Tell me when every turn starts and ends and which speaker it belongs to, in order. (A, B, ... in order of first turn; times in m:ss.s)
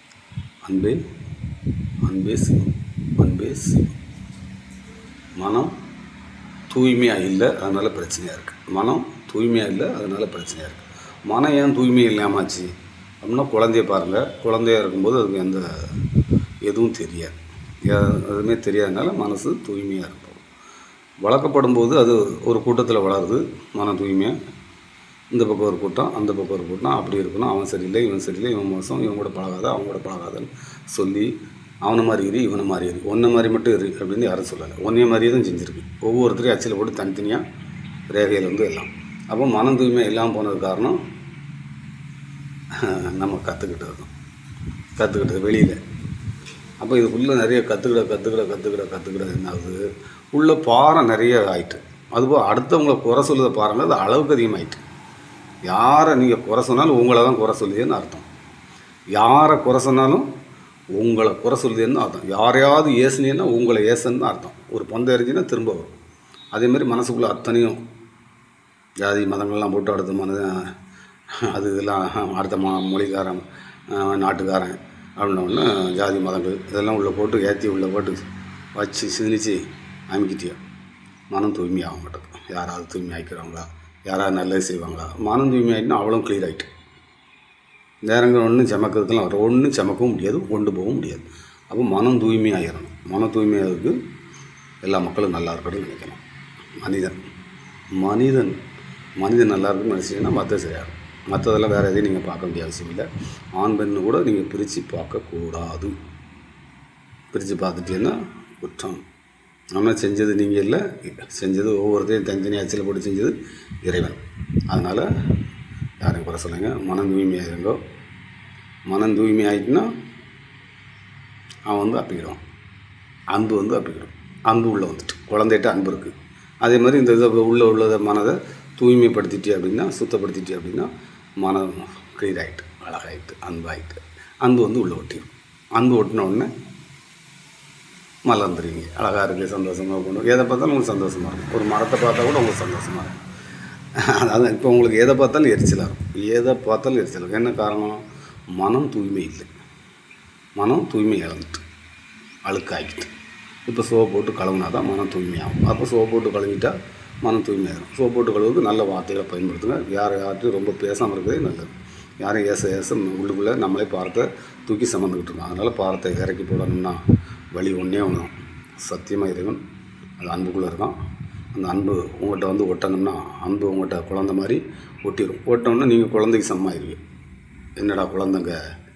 0:00.6-0:01.0 A
0:02.0-0:03.9 A
0:05.4-0:05.7 A
0:06.7-0:12.7 A
0:13.2-0:15.9 A
0:16.6-0:17.4 A
0:17.9-0:20.4 A
0:21.2-0:24.4 A
0:25.3-0:31.3 A
0:31.8-0:37.4 A
0:38.1-0:41.0 A
0:42.8-0:44.1 A
0:45.0-0:45.8 A
0:46.8-0:49.8 A
0:50.3-0:54.8 A
0:55.7-0:58.3 A
0:59.1-1:00.3 A
1:01.0-1:05.9 A
1:06.5-1:07.8 A
1:09.0-1:10.7 A
1:11.5-1:18.2 A
1:18.8-1:20.6 A
1:21.3-1:26.7 A
1:28.1-1:34.0 A
1:34.8-1:36.2 A
1:36.8-1:37.2 A
1:38.0-1:38.6 A
1:39.2-1:45.9 A
1:47.3-1:49.0 A
1:49.7-1:55.1 A
1:56.0-1:57.8 A
1:58.9-1:59.9 A
2:01.7-2:02.4 A
2:03.3-2:16.5 A
2:18.3-2:23.2 A
2:24.0-2:28.0 A
2:28.5-2:29.5 A
2:30.6-2:31.6 A
2:32.5-2:33.1 A
2:33.7-2:41.7 A
2:42.2-2:47.0 A
2:47.6-2:49.6 A
2:50.2-2:50.9 A
2:51.5-2:57.0 A
2:57.8-2:58.6 A